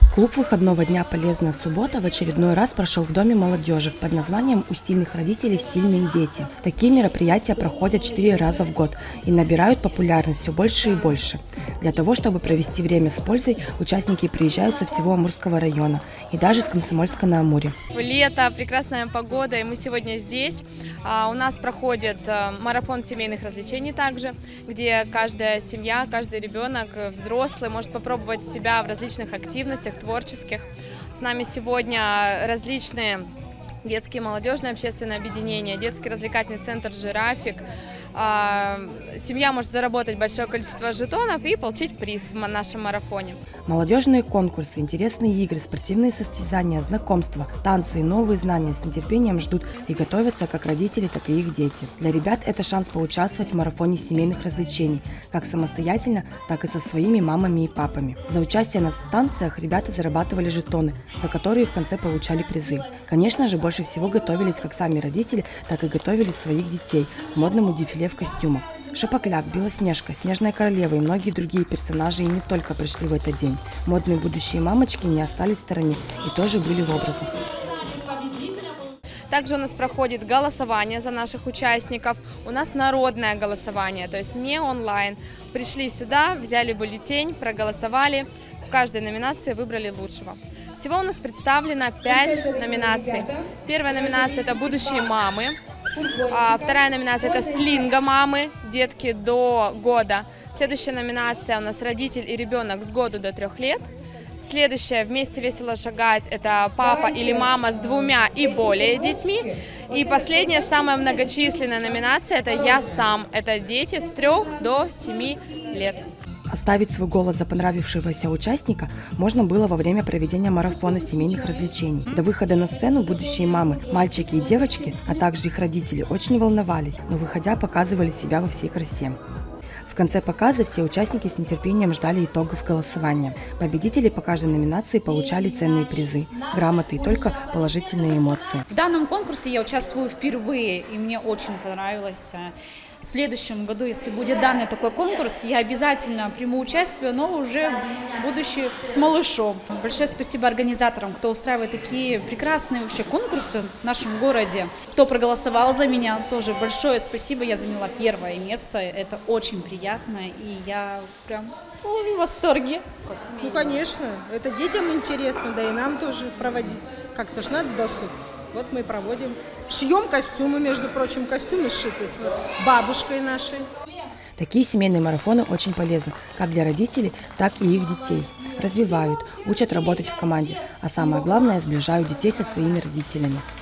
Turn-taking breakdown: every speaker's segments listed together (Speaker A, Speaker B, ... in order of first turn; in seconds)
Speaker A: 0.1-17.8, 43.7-77.4, 116.5-129.2, 129.9-138.6, 174.4-183.4
Speaker B: 17.9-33.3, 33.8-43.4, 78.0-78.4, 79.3-95.6, 96.1-103.9, 104.4-116.1
Speaker C: 138.7-162.9
Speaker D: 163.2-173.7